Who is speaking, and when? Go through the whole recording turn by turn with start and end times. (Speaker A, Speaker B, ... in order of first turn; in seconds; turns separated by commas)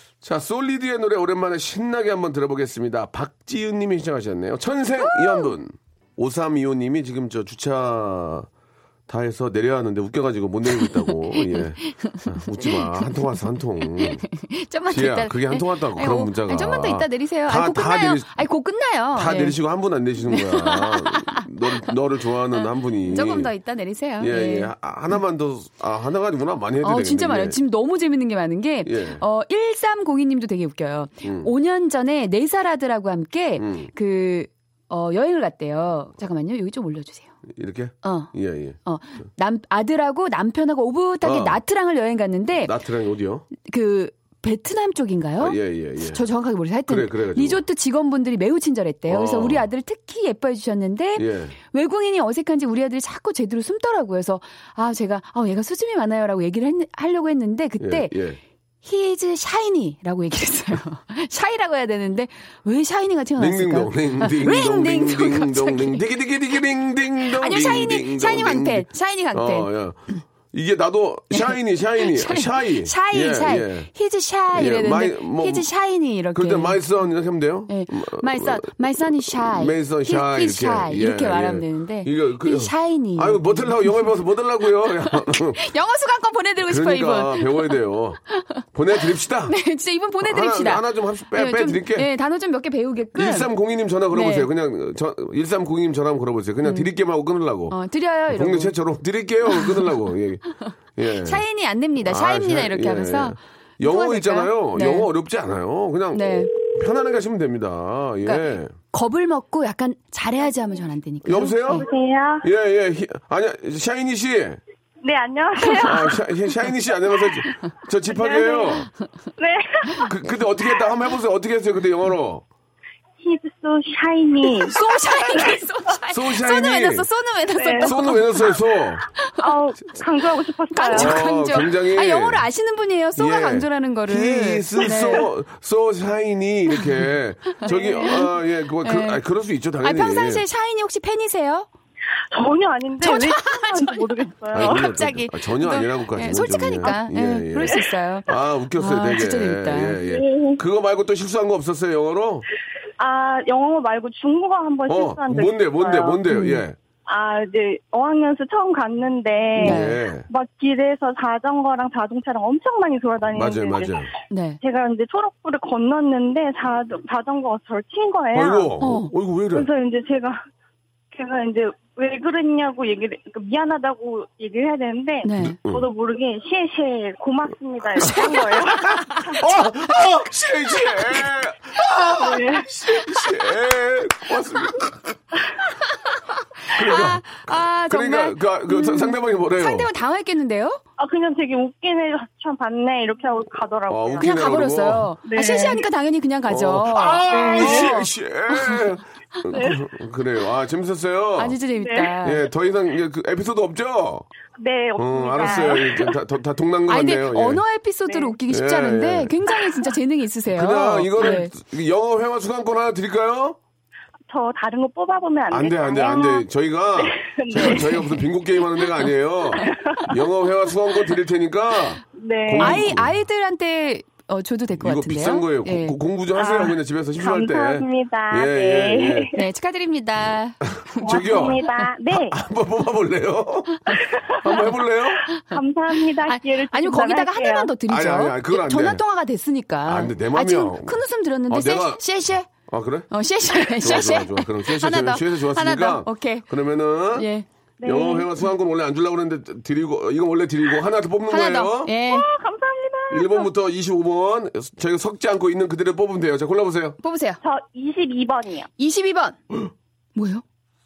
Speaker A: 0.2-8.5, Speaker B: 5.0-5.5, Speaker A: 9.1-14.3, Speaker B: 10.8-13.1, Speaker B: 14.0-19.6, Speaker A: 14.9-18.3, Speaker A: 19.1-23.5, Speaker B: 20.3-21.8, Speaker B: 23.0-24.7, Speaker A: 24.2-27.6, Speaker B: 26.8-37.3, Speaker A: 28.8-29.2, Speaker A: 31.2-31.5, Speaker A: 33.6-33.9, Speaker A: 37.5-38.8, Speaker B: 38.0-38.3, Speaker B: 38.8-42.7, Speaker A: 41.2-41.6, Speaker A: 42.6-43.5, Speaker B: 43.5-58.1, Speaker A: 45.4-46.2, Speaker A: 46.9-47.6, Speaker A: 49.1-49.6, Speaker A: 51.1-51.5, Speaker A: 57.8-58.4, Speaker B: 58.8-66.0, Speaker A: 63.4-73.9, Speaker B: 67.3-69.7, Speaker B: 71.3-76.8, Speaker A: 74.5-75.7, Speaker A: 76.3-78.7, Speaker B: 77.7-83.9, Speaker A: 79.3-85.6, Speaker B: 85.1-87.8, Speaker A: 86.7-88.2, Speaker B: 88.3-93.5, Speaker A: 88.7-89.6, Speaker A: 90.2-92.1, Speaker A: 93.1-97.8, Speaker B: 94.1-94.5, Speaker B: 96.6-96.9, Speaker B: 97.7-98.7, Speaker A: 98.3-100.4, Speaker B: 99.5-99.9, Speaker A: 101.0-101.4, Speaker B: 101.2-105.1, Speaker A: 102.0-108.7, Speaker B: 106.1-106.5, Speaker B: 108.2-111.8, Speaker A: 111.2-111.8, Speaker C: 111.7-112.5, Speaker A: 112.4-114.6, Speaker C: 115.0-116.2, Speaker B: 115.6-116.1, Speaker A: 115.8-118.9, Speaker C: 118.2-118.8, Speaker C: 119.4-120.1, Speaker A: 120.0-122.4, Speaker C: 123.2-124.8, Speaker B: 124.7-128.6, Speaker A: 126.1-127.1, Speaker C: 127.6-127.9, Speaker A: 127.8-129.0, Speaker B: 129.2-129.5, Speaker C: 129.4-131.4, Speaker B: 130.7-135.3, Speaker A: 130.9-132.4, Speaker A: 133.2-140.4, Speaker B: 137.6-138.3, Speaker B: 138.8-139.2, Speaker B: 139.8-141.7, Speaker C: 142.3-144.9, Speaker B: 143.0-150.0, Speaker A: 144.5-152.4, Speaker C: 150.0-150.6, Speaker C: 153.0-156.2, Speaker A: 154.9-156.8, Speaker B: 156.3-156.6, Speaker C: 157.1-164.1, Speaker A: 159.6-160.3, Speaker B: 159.6-160.0, Speaker A: 163.3-164.1, Speaker B: 164.3-164.6, Speaker C: 164.6-168.7, Speaker A: 168.3-169.7, Speaker B: 168.8-169.1, Speaker C: 169.5-170.4, Speaker C: 171.1-179.4, Speaker B: 175.2-175.6, Speaker A: 175.4-175.8, Speaker B: 178.0-179.4, Speaker A: 178.0-185.1, Speaker C: 182.1-182.8, Speaker B: 186.6-190.8, Speaker A: 186.7-189.9, Speaker C: 191.0-194.4, Speaker A: 193.9-195.1, Speaker B: 194.2-198.7, Speaker C: 195.2-195.8, Speaker A: 196.5-201.6, Speaker C: 197.3-198.1, Speaker C: 199.5-199.9, Speaker B: 201.4-202.4, Speaker C: 201.8-202.2, Speaker A: 202.2-204.3, Speaker C: 204.6-206.2, Speaker A: 205.0-207.6, Speaker B: 206.9-211.5, Speaker C: 208.1-208.4, Speaker A: 208.5-209.4, Speaker A: 210.5-213.6, Speaker C: 214.3-216.4, Speaker A: 215.5-223.1, Speaker C: 217.0-218.2, Speaker C: 219.5-220.2, Speaker C: 222.2-222.9, Speaker B: 222.6-225.9, Speaker A: 224.8-229.3, Speaker C: 226.3-229.4, Speaker B: 229.3-231.9, Speaker A: 230.7-235.3, Speaker C: 231.0-232.4, Speaker C: 234.0-237.7, Speaker B: 236.0-242.5, Speaker A: 237.8-239.0, Speaker A: 239.8-242.0, Speaker A: 242.7-247.3, Speaker B: 243.1-246.5, Speaker B: 247.1-247.5, Speaker C: 247.8-248.3, Speaker A: 247.8-251.9, Speaker B: 251.3-252.3, Speaker C: 252.0-253.5, Speaker A: 253.1-257.0, Speaker B: 257.0-257.4, Speaker C: 257.4-258.7, Speaker B: 258.8-259.4, Speaker B: 260.1-260.4